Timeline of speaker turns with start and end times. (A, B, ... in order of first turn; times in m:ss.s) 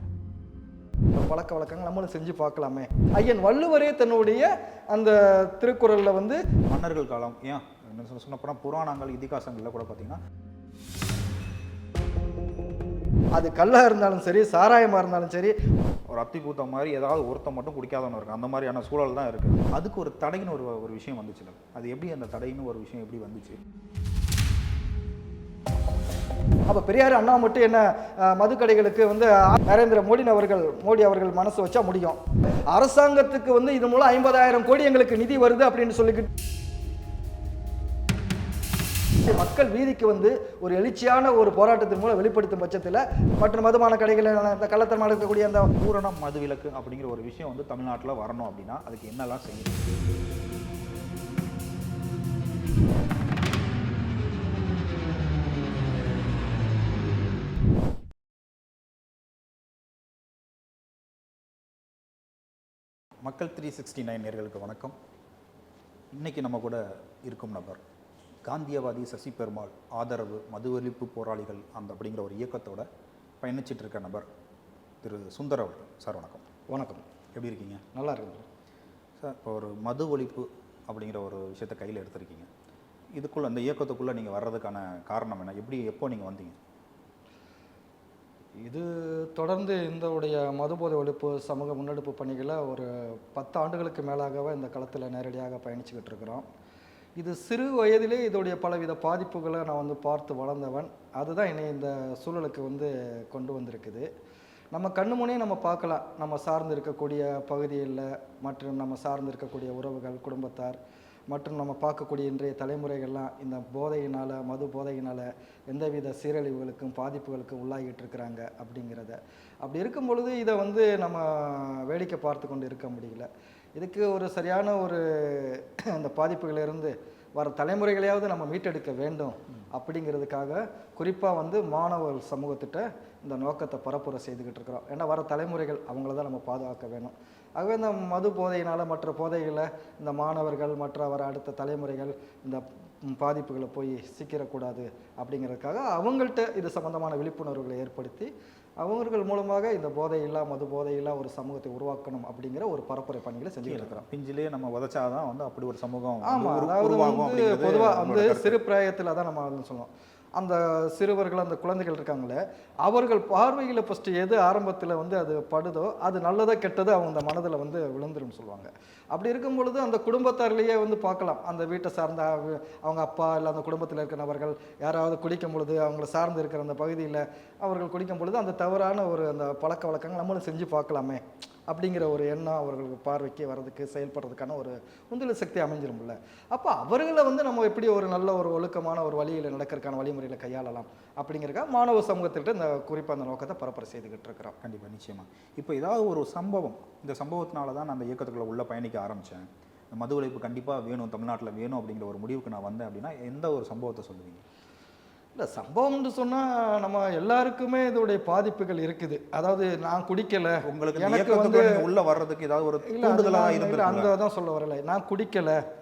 0:01.1-0:06.4 A
0:06.7-0:10.2 B
0:13.4-0:15.6 A
0:16.1-0:23.6 B
0:26.7-0:36.3 A
0:39.2-0:45.7 A
0:45.8-0:49.9 B
1:03.2-1:05.0 B
1:06.1-1:07.8 B
1:08.5-1:12.9 B
1:13.4-1:14.3 B
1:15.0-1:16.4 B
1:16.7-1:17.0 A
1:17.4-1:17.8 B
1:17.9-1:18.5 A
1:19.2-1:22.5 B
1:23.2-1:26.6 B
1:28.6-1:36.5 A
1:37.2-1:44.1 A
1:44.7-1:50.8 A
1:51.3-2:34.0 A
2:33.7-2:38.6 B
2:36.2-3:14.6 A
3:14.6-3:24.4 B
3:25.4-3:31.8 A
3:30.6-3:34.1 B
3:32.9-3:35.6 A